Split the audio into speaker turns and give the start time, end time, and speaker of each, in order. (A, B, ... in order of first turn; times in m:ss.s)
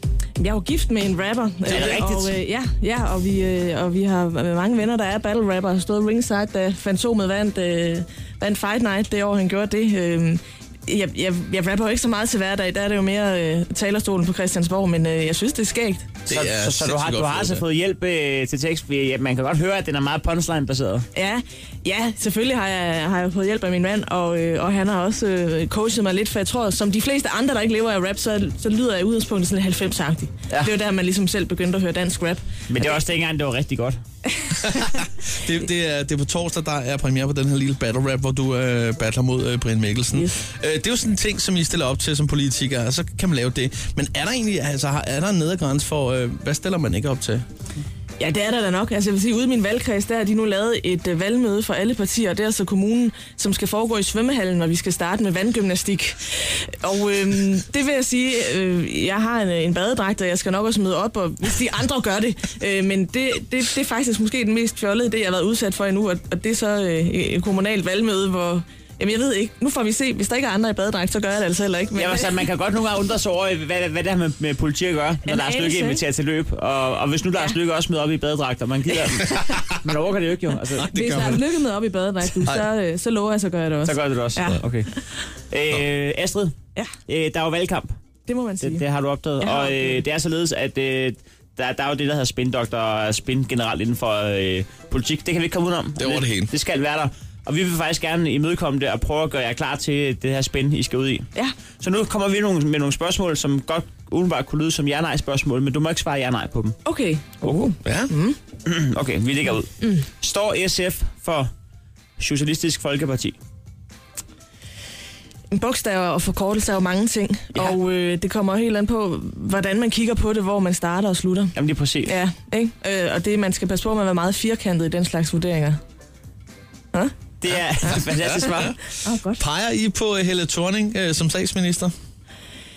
0:00.4-0:16.2 A
0:01.7-0:02.2 B
0:01.7-0:02.3 C
0:16.3-0:17.6 B
0:16.3-0:21.0 C
0:21.1-0:32.4 A
0:32.7-0:34.0 C
0:34.6-0:47.4 B
0:48.2-1:12.4 A
1:11.9-1:20.9 C
1:15.3-1:16.0 A
1:20.8-1:21.4 B
1:20.9-1:24.6 A
1:22.4-1:22.7 B
1:23.8-1:24.9 C
1:25.5-1:26.6 C
1:27.1-1:27.9 C
1:28.3-1:28.8 A
1:28.6-1:41.3 C
1:29.4-1:30.0 A
1:36.0-1:36.5 B
1:41.8-1:46.8 C
1:46.8-1:48.4 A
1:47.4-1:47.7 C
1:47.8-1:48.1 B
1:48.6-1:51.5 C
1:49.8-1:50.0 A
1:52.2-1:53.4 C
1:55.5-2:01.5 A
2:01.6-2:02.1 C
2:02.0-2:05.8 A
2:07.4-2:08.7 C
2:07.8-2:08.8 B
2:09.0-2:09.4 A
2:09.4-2:11.9 B